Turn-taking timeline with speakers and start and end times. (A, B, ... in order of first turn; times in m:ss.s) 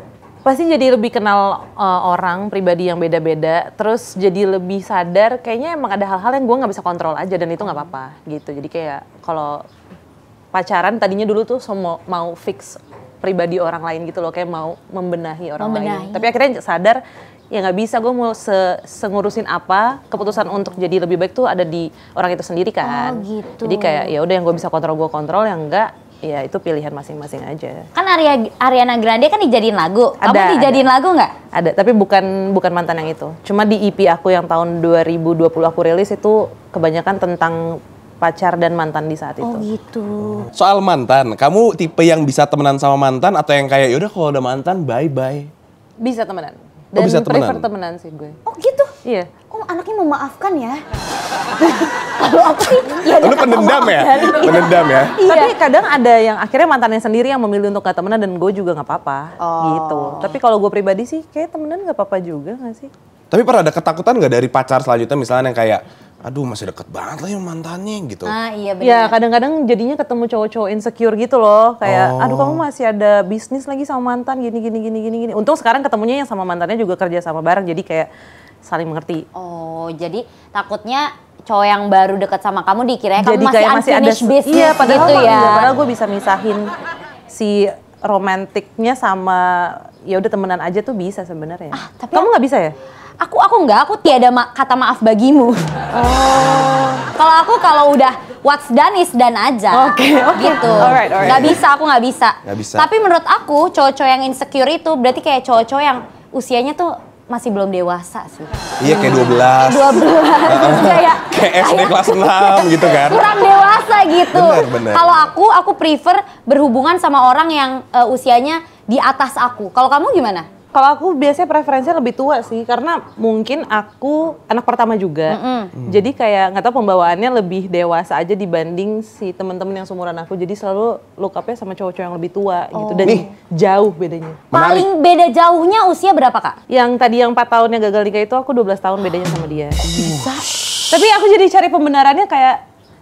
0:00.4-0:09.6 A
0:10.5-0:17.0 A
0:15.6-0:16.3 B
0:17.5-0:27.9 A
0:22.8-0:24.1 B
0:27.9-0:31.3 B
0:30.2-0:30.9 A
0:31.5-0:39.6 A
0:39.4-0:40.5 B
0:40.2-0:45.5 C
0:46.0-0:48.4 A
0:47.0-0:47.6 C
0:48.4-0:48.9 B
0:49.0-0:49.3 A
0:49.5-0:50.8 B
0:51.8-0:55.5 B
0:53.1-0:55.1 C
0:55.2-1:02.9 A
0:59.4-1:00.4 B
1:03.3-1:08.3 C
1:08.2-1:09.1 B
1:08.8-1:18.1 A
1:11.8-1:12.6 C
1:18.6-1:19.2 A
1:19.3-1:25.7 B
1:23.2-1:26.7 A
1:27.3-1:32.7 A
1:31.7-1:32.3 B
1:33.2-1:35.8 B
1:35.9-1:37.0 A
1:37.0-2:00.5 B
1:39.7-1:41.6 A
1:40.8-1:41.6 C
1:42.4-1:42.9 C
1:48.8-1:53.2 C
1:54.3-1:55.3 C
2:00.7-2:14.4 A
2:05.3-2:05.7 B
2:05.8-2:06.0 C
2:12.7-2:13.3 B
2:14.5-2:14.9 C
2:14.5-2:16.6 B
2:16.7-2:19.8 A
2:19.8-2:20.9 C
2:19.9-2:20.4 B
2:20.9-2:22.6 A